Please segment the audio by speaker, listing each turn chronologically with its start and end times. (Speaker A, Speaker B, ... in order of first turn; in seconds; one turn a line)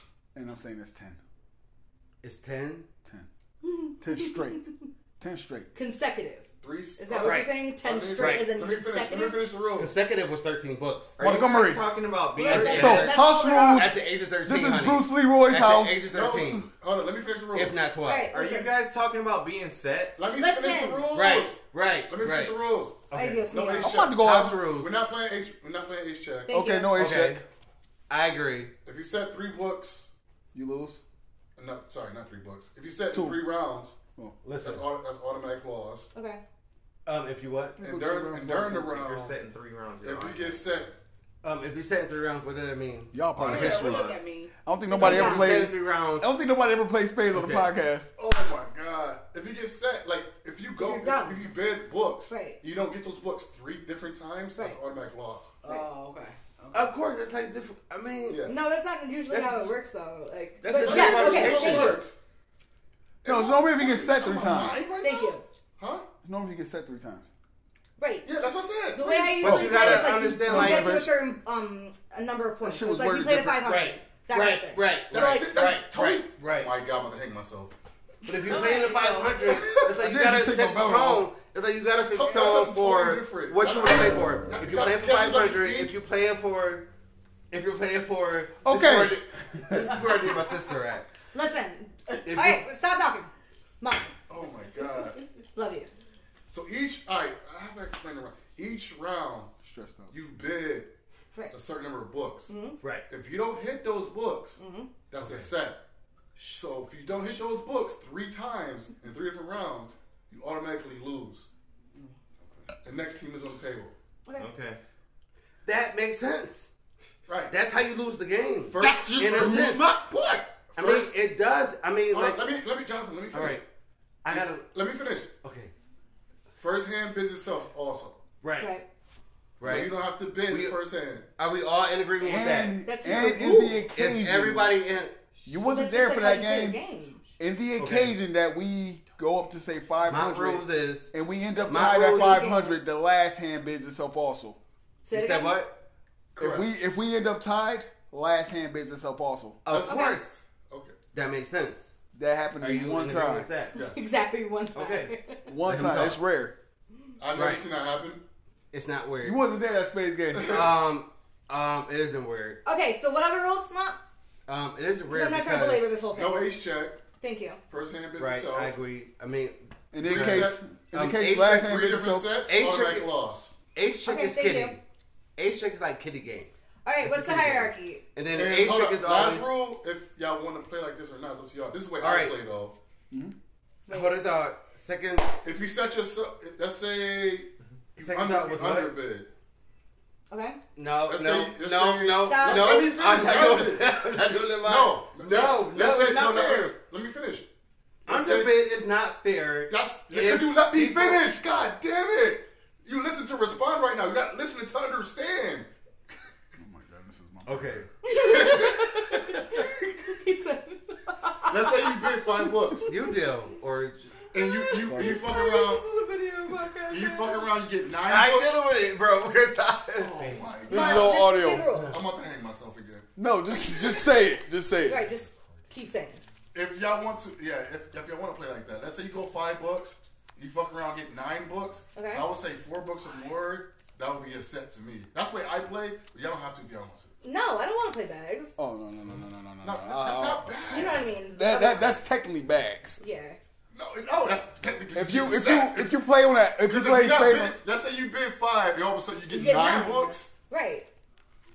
Speaker A: 0.3-1.2
Speaker B: 2.2-2.9
Speaker C: 3.7-4.6
Speaker A: 4.0-4.7
Speaker A: 5.2-5.7
Speaker C: 5.8-6.5
Speaker D: 6.6-9.9
Speaker C: 7.0-9.4
Speaker B: 7.2-7.5
Speaker B: 8.2-8.5
Speaker B: 9.8-11.2
Speaker E: 11.2-13.2
Speaker A: 11.2-11.9
Speaker C: 12.3-13.9
Speaker B: 12.5-16.7
Speaker A: 12.5-16.6
Speaker D: 16.1-17.8
Speaker B: 17.5-18.3
Speaker C: 18.1-18.8
Speaker E: 18.3-20.2
Speaker D: 20.2-26.5
Speaker C: 20.4-21.1
Speaker B: 21.1-22.6
Speaker B: 23.1-23.5
Speaker C: 23.1-24.1
Speaker A: 23.8-24.6
Speaker B: 24.2-25.0
Speaker C: 26.5-27.0
Speaker A: 26.5-27.4
Speaker B: 26.9-27.4
Speaker B: 28.1-28.7
Speaker D: 28.9-30.1
Speaker A: 30.5-31.0
Speaker D: 31.6-34.0
Speaker A: 33.1-33.5
Speaker B: 34.4-34.9
Speaker D: 34.6-36.1
Speaker C: 36.1-36.4
Speaker B: 37.0-37.8
Speaker A: 37.8-38.9
Speaker D: 37.8-39.4
Speaker E: 38.7-40.9
Speaker D: 40.0-40.9
Speaker B: 41.4-43.7
Speaker A: 43.1-48.1
Speaker E: 43.4-44.2
Speaker F: 43.5-44.5
Speaker C: 44.9-45.7
Speaker B: 45.0-46.4
Speaker B: 47.3-47.7
Speaker D: 48.2-55.6
Speaker C: 50.8-51.4
Speaker C: 52.3-52.6
Speaker F: 55.6-56.9
Speaker C: 55.7-55.9
Speaker B: 56.7-58.4
Speaker D: 58.3-58.6
Speaker C: 58.5-62.0
Speaker B: 59.3-59.7
Speaker B: 60.6-62.0
Speaker D: 60.8-62.2
Speaker D: 63.2-66.0
Speaker A: 63.2-64.8
Speaker C: 65.0-65.5
Speaker A: 66.2-67.3
Speaker C: 68.0-68.3
Speaker D: 68.2-69.7
Speaker C: 68.9-75.6
Speaker B: 69.4-71.0
Speaker A: 69.4-71.1
Speaker A: 72.6-73.7
Speaker B: 73.7-76.7
Speaker D: 75.1-77.7
Speaker B: 78.2-86.9
Speaker F: 78.5-79.6
Speaker C: 78.5-79.1
Speaker A: 79.8-81.3
Speaker D: 82.1-85.9
Speaker B: 87.5-91.1
Speaker A: 88.7-90.0
Speaker C: 91.3-93.3
Speaker B: 92.2-92.7
Speaker C: 93.8-94.2
Speaker D: 94.3-95.2
Speaker C: 95.5-95.9
Speaker D: 96.5-99.5
Speaker A: 99.6-100.1
Speaker D: 100.1-100.9
Speaker D: 101.5-102.5
Speaker C: 102.5-102.8
Speaker B: 102.8-103.1
Speaker D: 103.1-105.8
Speaker C: 104.6-104.9
Speaker E: 105.2-105.5
Speaker D: 106.4-111.5
Speaker D: 112.8-114.0
Speaker E: 114.4-114.8
Speaker B: 115.7-116.7
Speaker D: 117.3-117.5
Speaker B: 117.5-122.5
Speaker D: 118.7-119.9
Speaker A: 119.3-119.8
Speaker D: 120.7-121.2
Speaker D: 122.1-123.6
Speaker B: 123.3-123.6
Speaker B: 124.2-124.7
Speaker D: 124.3-125.3
Speaker B: 125.4-125.7
Speaker D: 126.6-128.2
Speaker B: 128.4-128.7
Speaker C: 128.6-128.9
Speaker B: 129.6-130.8
Speaker D: 129.6-131.3
Speaker B: 131.4-132.8
Speaker A: 132.2-134.8
Speaker C: 132.8-133.8
Speaker B: 133.9-135.2
Speaker A: 135.5-136.8
Speaker C: 135.7-137.2
Speaker A: 137.4-144.6
Speaker B: 137.8-138.2
Speaker B: 140.0-142.6
Speaker C: 141.9-142.8
Speaker C: 145.1-145.6
Speaker B: 145.1-145.8
Speaker D: 146.4-146.7
Speaker A: 146.4-149.6
Speaker B: 149.7-150.4
Speaker D: 149.7-150.1
Speaker C: 149.9-150.2
Speaker D: 150.7-150.9
Speaker B: 151.1-151.9
Speaker A: 152.1-153.5
Speaker B: 152.6-153.8
Speaker D: 153.7-154.1
Speaker C: 153.7-155.5
Speaker B: 154.7-155.1
Speaker A: 155.5-156.6
Speaker B: 155.7-156.2
Speaker D: 157.2-158.2
Speaker B: 157.3-157.7
Speaker B: 158.7-159.4
Speaker A: 159.2-160.7
Speaker D: 160.3-160.8
Speaker B: 160.4-162.6
Speaker C: 162.7-164.0
Speaker B: 164.5-165.8
Speaker C: 165.1-166.5
Speaker D: 166.1-167.0
Speaker C: 167.2-167.6
Speaker D: 167.7-168.7
Speaker B: 168.2-171.7
Speaker A: 169.9-172.4
Speaker D: 170.0-170.6
Speaker D: 171.5-173.6
Speaker B: 172.5-173.1
Speaker B: 173.7-174.8
Speaker C: 174.1-174.8
Speaker B: 175.4-176.5
Speaker C: 176.8-178.0
Speaker B: 177.0-179.5
Speaker D: 178.3-182.8
Speaker B: 182.0-182.4
Speaker C: 183.9-184.2
Speaker B: 183.9-185.3
Speaker D: 185.4-189.3
Speaker B: 188.0-188.9
Speaker C: 190.3-190.6
Speaker B: 190.8-196.8
Speaker D: 191.1-193.9
Speaker C: 192.2-192.9
Speaker D: 194.6-197.5
Speaker D: 198.1-198.6
Speaker B: 198.1-201.2
Speaker D: 199.7-205.7
Speaker A: 206.6-207.9
Speaker B: 207.4-207.9
Speaker C: 208.0-212.3
Speaker D: 208.1-209.2
Speaker D: 211.5-212.9
Speaker B: 212.9-214.1
Speaker D: 214.3-215.9
Speaker C: 214.4-217.5
Speaker A: 214.8-215.3
Speaker D: 216.9-218.6
Speaker B: 218.1-220.2
Speaker D: 220.0-221.3
Speaker E: 220.2-220.7
Speaker A: 220.7-221.7
Speaker C: 220.7-221.9
Speaker D: 221.9-223.1
Speaker A: 223.2-225.0
Speaker C: 224.9-226.2
Speaker D: 226.5-237.1
Speaker C: 231.9-232.3
Speaker C: 237.2-238.6
Speaker A: 238.6-243.0
Speaker D: 239.6-241.1
Speaker C: 240.7-242.0
Speaker C: 243.0-243.4
Speaker D: 243.7-246.0
Speaker A: 244.9-247.6
Speaker D: 246.6-250.3
Speaker C: 249.3-250.9